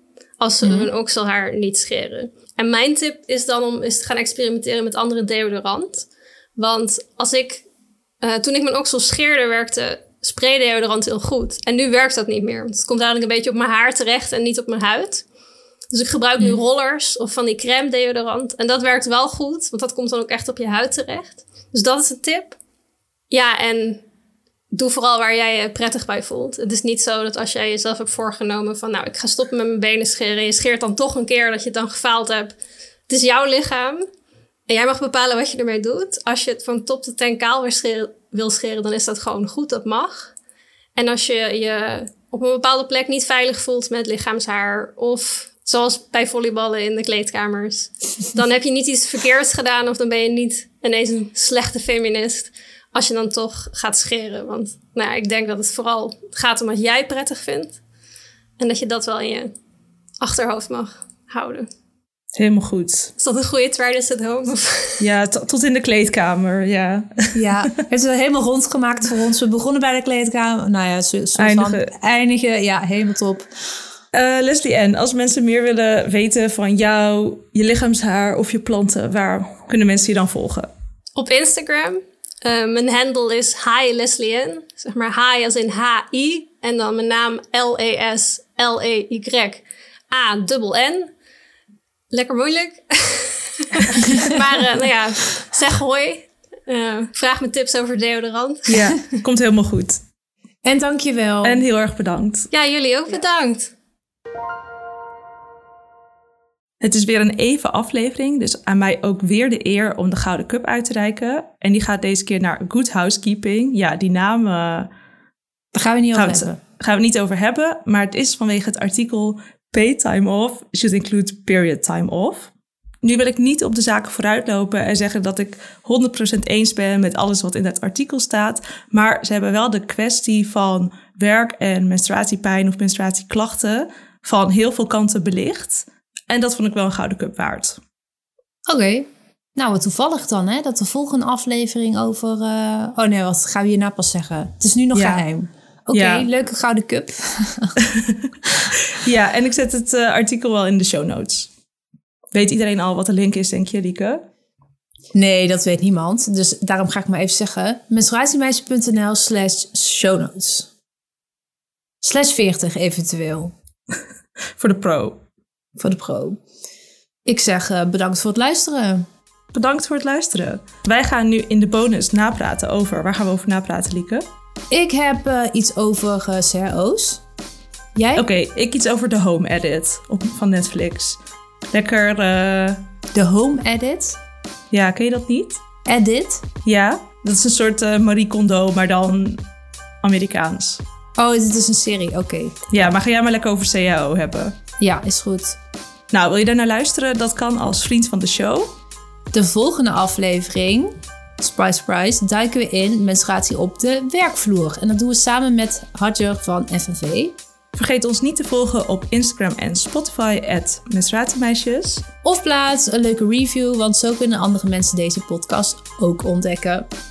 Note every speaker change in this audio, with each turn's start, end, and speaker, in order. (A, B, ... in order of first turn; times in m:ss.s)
0:00.4-0:07.7 A
0:00.6-0:00.9 B
0:08.2-0:15.2 A
0:15.9-0:22.6 A
0:23.3-0:24.0 A
0:24.7-0:32.6 A
0:33.1-0:34.0 A
0:34.7-0:40.3 A
0:41.0-0:57.8 A
0:58.6-0:59.5 A
1:00.2-1:01.7 A
1:02.4-1:03.1 C
1:03.2-1:05.0 A
1:05.0-1:07.4 C
1:07.3-1:13.8 B
1:11.4-1:11.9 C
1:14.1-1:20.7 C
1:21.2-1:31.1 A
1:32.1-1:39.0 A
1:38.7-1:40.0 C
1:40.6-1:41.6 B
1:41.4-1:42.5 C
1:42.5-1:43.7 A
1:46.8-1:54.9 C
1:55.7-1:56.6 B
1:56.1-2:02.5 C
2:03.0-2:17.8 C
2:18.7-2:27.8 B
2:24.9-2:25.2 C
2:25.9-2:26.3 C
2:27.8-2:28.3 C
2:28.9-2:31.5 C
2:32.3-2:34.2 C
2:35.1-2:40.7 B
2:42.0-2:43.5 B
2:44.6-2:45.2 C
2:45.8-2:46.4 B
2:47.3-2:49.1 B
2:49.5-2:54.2 C
2:54.7-2:57.2 B
2:58.0-2:58.3 B
2:58.2-3:01.2 C
3:01.7-3:02.8 C
3:03.1-3:04.2 B
3:04.7-3:05.6 C
3:05.9-3:06.4 B
3:06.6-3:09.4 C
3:10.0-3:10.8 C
3:11.2-3:12.6 B
3:12.7-3:14.6 C
3:14.8-3:15.6 B
3:16.1-3:18.7 C
3:19.3-3:27.4 B
3:27.8-3:32.0 C
3:32.2-3:36.9 B